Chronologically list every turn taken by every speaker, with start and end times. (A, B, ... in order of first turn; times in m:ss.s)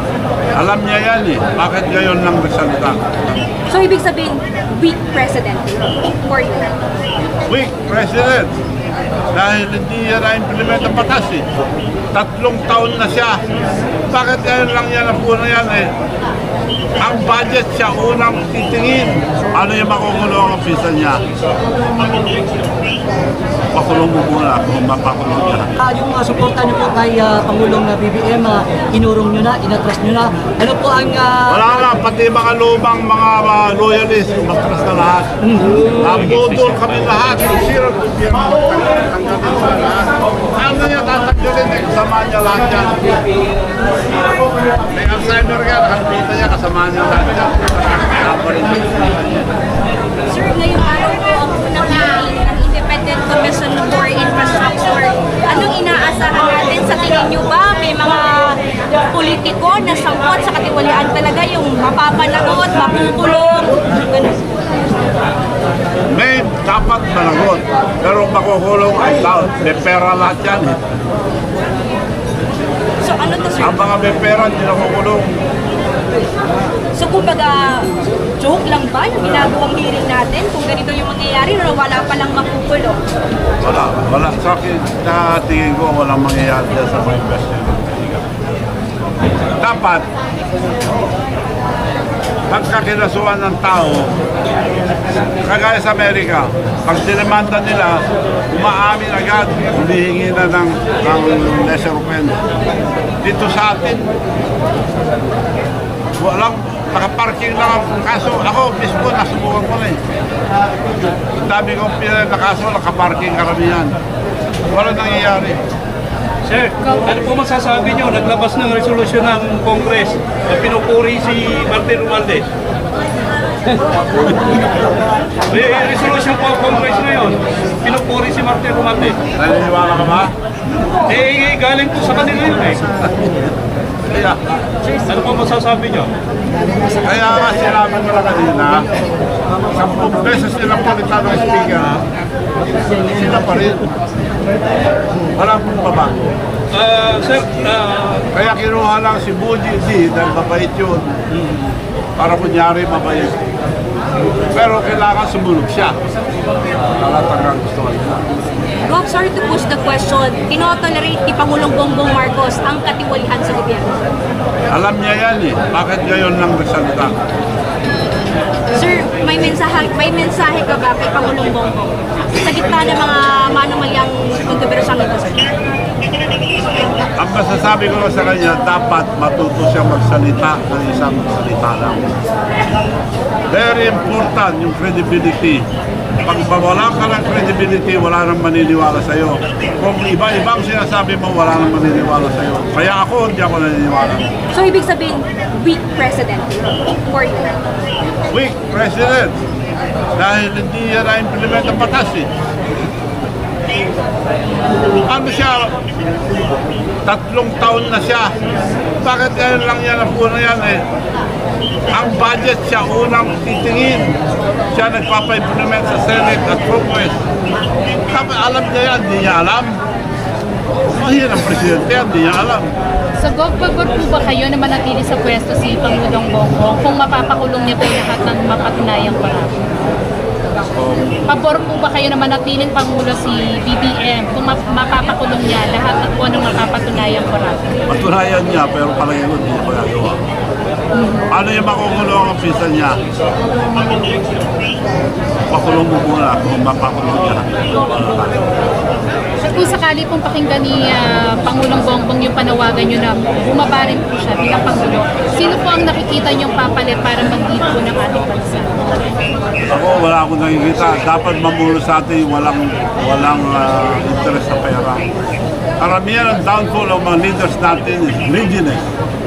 0:00.5-0:03.2 A
0:03.7-0:06.7 B
0:07.5-0:08.6 A
0:09.3-0:11.5 A
0:12.1-0:13.4 A
0:14.1-0:15.9 A
0:17.0-0:21.2 A
0:23.7-0:25.7 A
0:25.8-0:31.9 C
0:31.5-0:35.3 A
0:35.4-0:35.9 C
0:35.9-0:43.2 A
0:44.9-0:49.5 A
0:50.3-1:04.4 B
1:06.1-1:10.8 A
1:13.0-1:13.9 B
1:13.6-1:15.4 A
1:16.9-1:23.0 B
1:23.6-1:28.2 A
1:29.6-1:30.1 A
1:32.5-1:34.2 A
1:35.4-1:42.4 A
1:43.2-1:44.1 A
1:46.2-1:50.0 A
1:51.4-1:54.0 A
1:54.7-1:55.6 A
1:56.4-2:02.5 D
2:05.5-2:09.2 D
2:09.4-2:10.3 A
2:11.1-2:13.0 D
2:14.1-2:14.4 A
2:15.1-2:16.1 D
2:17.0-2:18.9 A
2:19.7-2:22.0 A
2:22.9-2:23.9 A
2:25.3-2:26.4 A
2:26.7-2:28.3 D
2:28.3-2:31.1 A
2:32.2-2:33.4 A
2:34.5-2:36.0 A
2:36.9-2:38.2 A
2:38.8-2:44.0 B
2:44.7-2:47.2 A
2:48.7-2:55.5 B
2:57.2-3:02.1 A
3:03.5-3:05.6 A
3:06.2-3:14.3 A
3:14.5-3:17.6 B
3:18.3-3:19.4 A
3:20.2-3:22.3 A
3:25.0-3:25.7 A
3:27.1-3:28.3 A
3:29.0-3:30.8 A
3:31.9-3:34.2 A
3:34.7-3:37.2 A
3:38.1-3:39.8 A
3:41.0-3:42.7 A
3:43.2-3:49.6 E
3:50.7-3:51.3 A
3:51.3-3:57.7 E
3:57.9-4:00.2 A
4:00.9-4:01.3 E
4:01.3-4:03.0 A
4:05.5-4:08.5 A
4:09.4-4:18.9 E
4:19.7-4:25.1 A
4:25.8-4:28.9 A